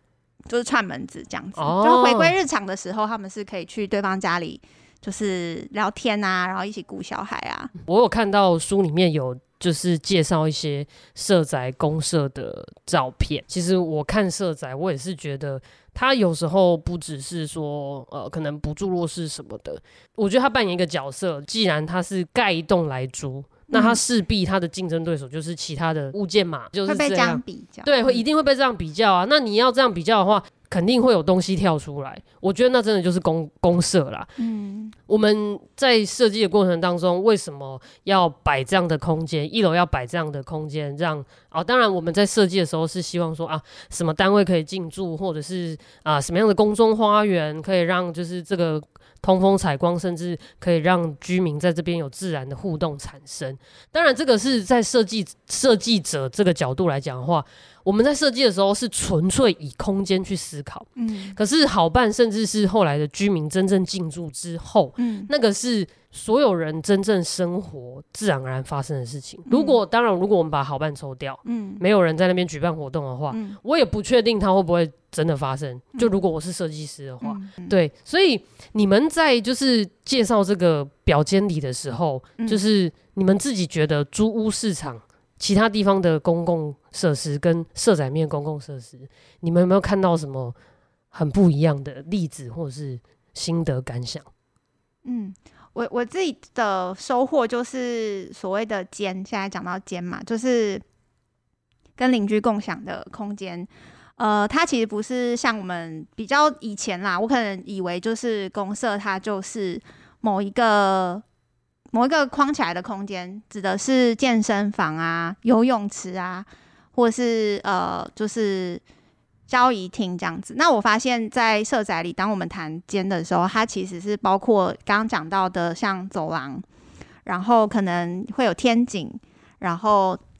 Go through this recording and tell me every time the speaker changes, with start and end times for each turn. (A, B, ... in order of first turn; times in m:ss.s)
0:00.5-0:07.7 A
0:01.6-0:02.3 B
0:07.8-0:34.3 B
0:23.7-0:24.0 A
0:26.8-0:28.1 A
0:34.4-0:34.9 A
0:35.1-1:30.5 B
1:01.0-1:01.4 A
1:05.0-1:05.3 A
1:09.5-1:09.8 A
1:11.4-1:11.8 A
1:13.3-1:13.6 A
1:17.2-1:17.8 A
1:31.1-1:34.2 B
1:35.0-1:40.8 A
1:42.0-1:51.2 A
1:51.9-1:58.8 A
1:59.5-2:06.6 A
2:07.2-2:10.2 A